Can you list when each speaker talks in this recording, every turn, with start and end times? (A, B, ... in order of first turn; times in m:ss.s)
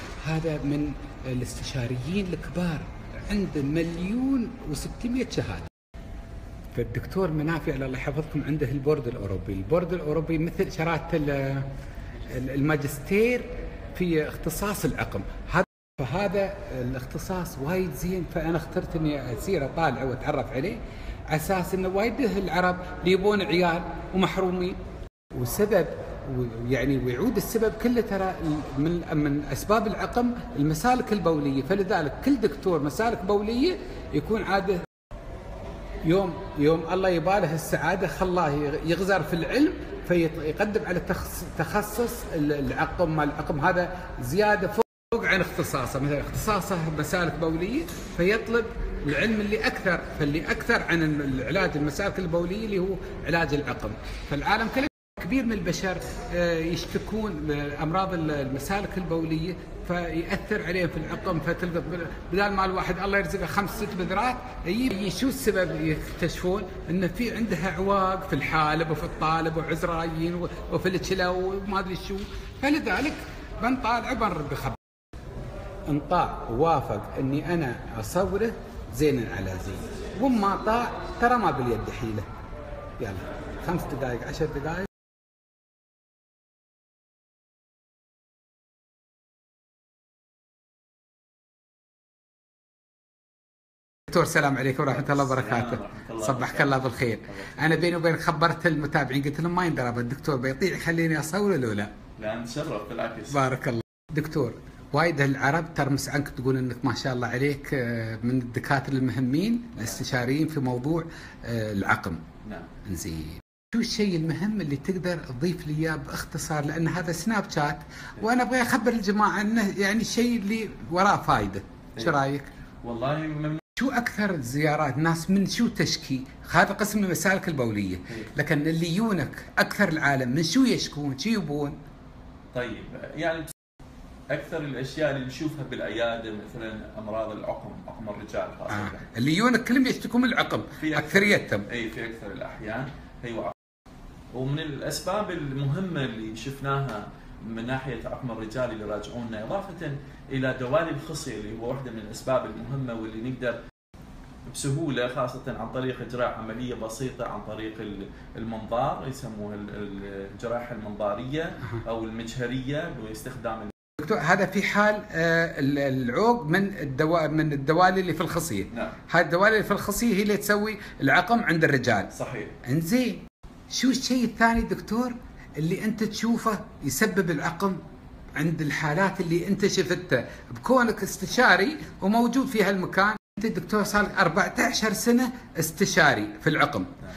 0:00.2-0:05.7 A
0:06.7-0:11.7 A
0:12.3-0:24.8 A
0:25.3-0:34.8 A
0:36.0-1:14.8 A
1:15.9-1:22.2 A
1:23.0-1:24.9 A
1:34.1-1:41.9 A
1:34.9-1:37.8 B
1:42.2-1:43.4 B
1:43.3-1:52.2 A
1:52.8-2:02.5 A
2:02.8-2:03.6 B
2:03.8-2:11.8 A
2:12.5-2:13.5 B
2:14.3-2:19.1 B
2:18.7-2:21.6 A
2:20.8-2:23.5 B
2:24.3-2:33.6 B
2:34.5-2:43.7 B
2:44.0-2:52.1 A
2:52.1-2:52.5 B
2:52.6-2:57.8 A
2:58.4-3:06.9 A